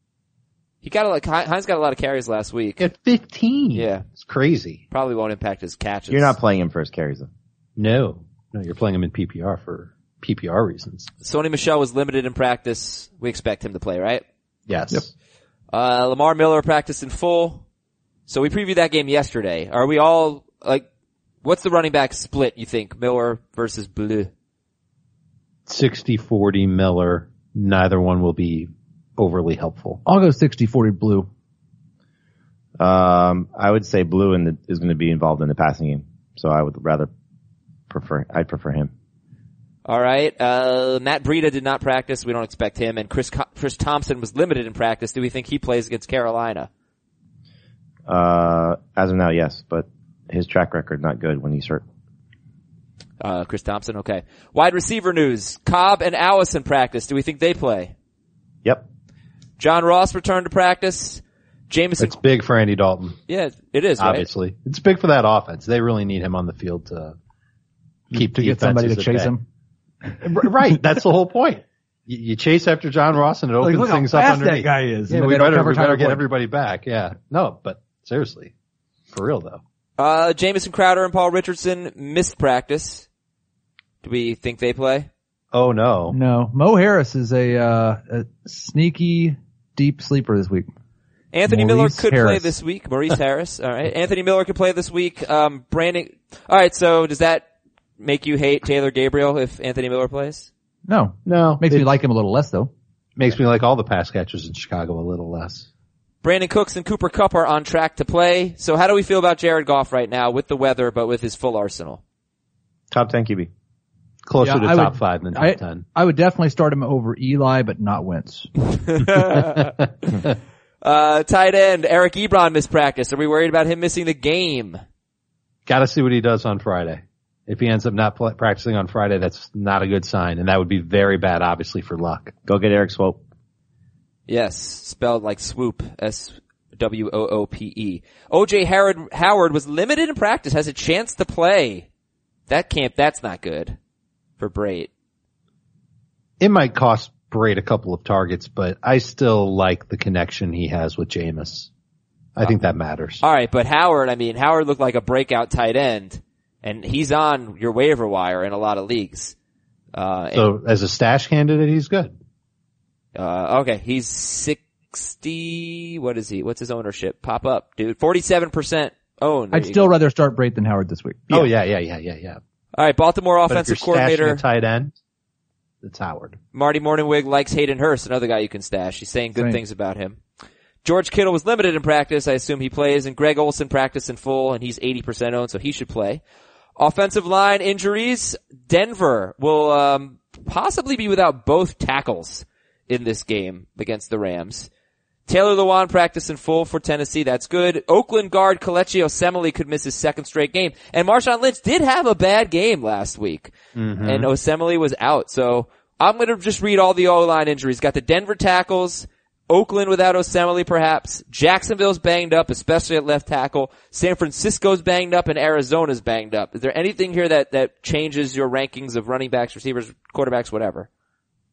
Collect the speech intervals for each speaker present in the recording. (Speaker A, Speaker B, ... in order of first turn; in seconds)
Speaker A: 0.8-2.9, 3.7-4.0, 4.9-6.4, 11.2-14.2, 15.7-17.6, 18.3-20.9, 21.4-24.3, 39.9-46.7, 53.2-57.9, 59.6-62.2, 63.3-64.3, 80.0-83.0, 84.0-85.1, 91.3-97.5, 98.0-100.5, 106.2-112.0, 118.8-119.8, 120.8-124.8, 134.3-141.9, 142.5-143.8, 144.4-144.9, 153.2-159.3, 159.9-160.5, 163.2-169.9, 172.7-174.4, 176.5-180.2, 180.8-186.2, 186.8-194.7, 195.3-220.9
Speaker B: 2.8-4.8, 7.8-11.1, 14.7-15.1, 25.7-30.0, 62.0-63.2, 64.0-67.2, 68.1-69.3, 70.2-78.5, 79.1-79.6, 85.5-86.2, 101.3-101.9, 103.2-105.7, 114.3-115.8, 125.7-132.3, 146.4-151.7, 152.4-153.2, 160.3-162.1, 171.3-172.4, 173.5-174.9, 175.8-176.4, 203.8-204.3
Speaker C: 6.1-7.3, 32.8-37.1, 37.9-38.9, 48.1-51.8, 112.9-113.5, 132.5-133.2
Speaker D: 30.1-31.3, 68.1-69.4, 73.6-76.2, 86.1-90.7, 91.5-92.5, 100.9-102.7, 114.4-118.5, 169.5-171.3